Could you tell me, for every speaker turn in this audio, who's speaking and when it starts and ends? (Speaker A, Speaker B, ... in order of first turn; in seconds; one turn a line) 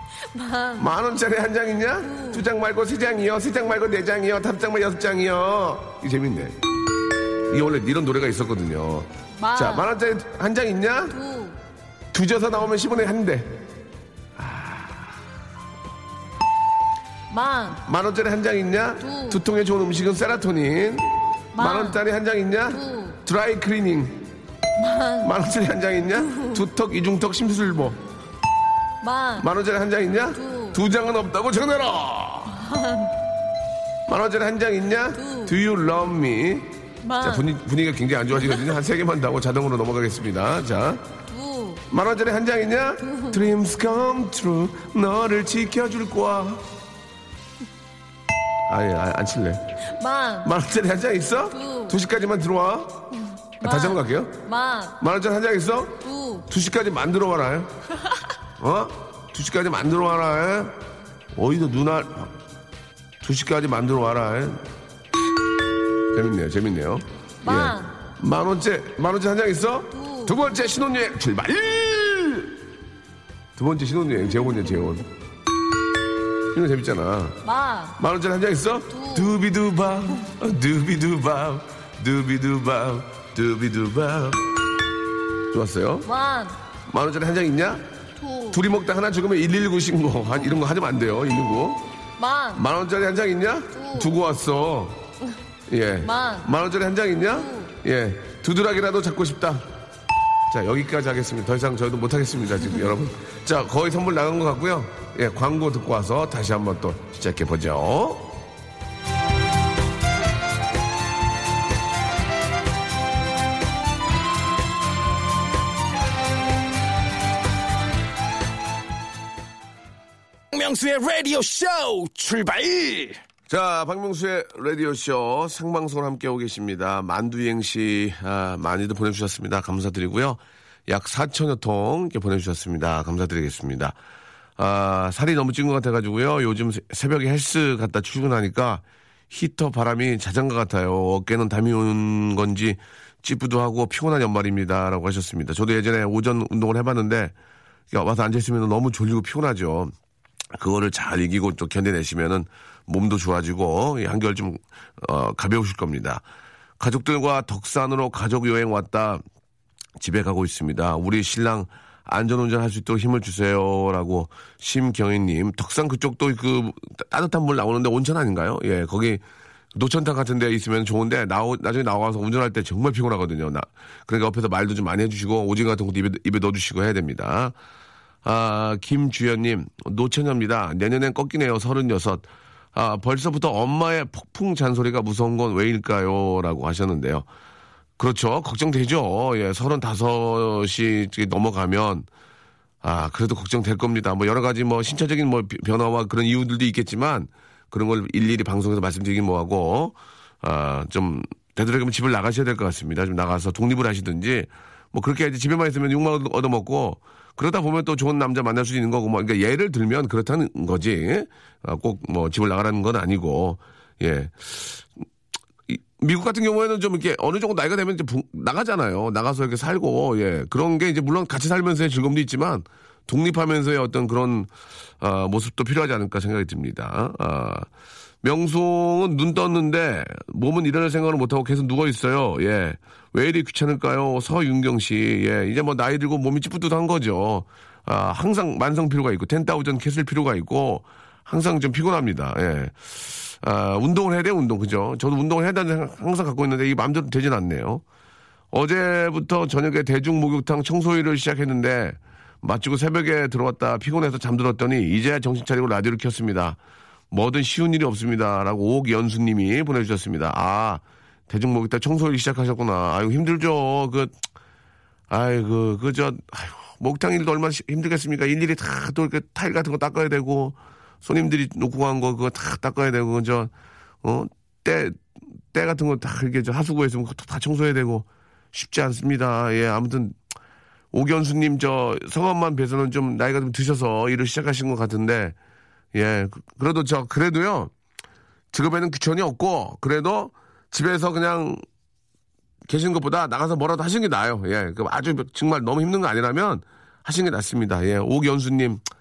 Speaker A: 0.3-1.0
Speaker B: 0.8-6.6
Speaker A: 2.0-2.5
Speaker B: 7.5-11.2
Speaker A: 9.4-9.9
Speaker A: 11.1-11.6
Speaker B: 12.1-13.6
Speaker B: 14.4-15.1
Speaker A: 17.3-17.8
Speaker B: 17.9-24.2
Speaker A: 19.0-19.4
Speaker A: 21.6-22.0
Speaker A: 22.7-23.2
Speaker A: 24.8-25.3
Speaker B: 25.2-28.0
Speaker A: 26.2-26.6
Speaker A: 29.0-29.5
Speaker B: 29.4-32.6
Speaker A: 30.3-30.8
Speaker A: 32.5-33.1
Speaker B: 34.1-41.0
Speaker A: 35.1-35.5
Speaker A: 37.0-37.5
Speaker A: 41.3-41.8
Speaker B: 41.9-46.6
Speaker A: 43.0-43.4
Speaker B: 48.7-49.6
Speaker A: 49.9-50.5
Speaker B: 50.4-53.0
Speaker A: 51.5-52.0
Speaker A: 53.4-55.0
Speaker B: 53.6-54.4
Speaker B: 55.0-57.7
Speaker A: 56.0-56.5
Speaker B: 58.6-60.8
Speaker B: 61.4-62.3
Speaker B: 63.2-64.6
Speaker B: 66.1-72.6
Speaker A: 67.4-67.9
Speaker A: 69.9-70.4
Speaker B: 73.5-75.0
Speaker B: 76.5-77.4
Speaker A: 77.4-78.0
Speaker B: 78.0-84.5
Speaker A: 78.9-79.3
Speaker B: 85.5-86.1
Speaker A: 86.0-86.6
Speaker B: 86.9-87.8
Speaker A: 88.2-88.6
Speaker B: 88.5-91.8
Speaker A: 92.2-92.7
Speaker B: 92.5-95.0
Speaker A: 93.7-94.2
Speaker B: 95.7-99.7
Speaker A: 96.0-96.5
Speaker A: 97.3-97.7
Speaker B: 100.5-108.3
Speaker C: 120.5-123.2
Speaker B: 123.5-134.0
Speaker B: 134.6-147.3
Speaker B: 147.9-149.9
Speaker B: 150.5-156.2
Speaker B: 156.8-159.2
Speaker B: 160.0-169.2
Speaker B: 169.8-177.5
Speaker B: 178.2-187.2
Speaker B: 188.0-192.1
Speaker B: 192.8-214.9
Speaker B: 215.7-224.5
Speaker B: 225.0-227.7
Speaker B: 228.2-247.8
Speaker B: 248.5-256.6
Speaker B: 257.1-264.1
Speaker B: 265.1-273.5
Speaker B: 274.0-275.0
Speaker B: 275.5-280.2
Speaker B: 280.9-285.4
Speaker B: 285.9-287.7
Speaker B: 288.5-291.6
Speaker B: 292.7-298.8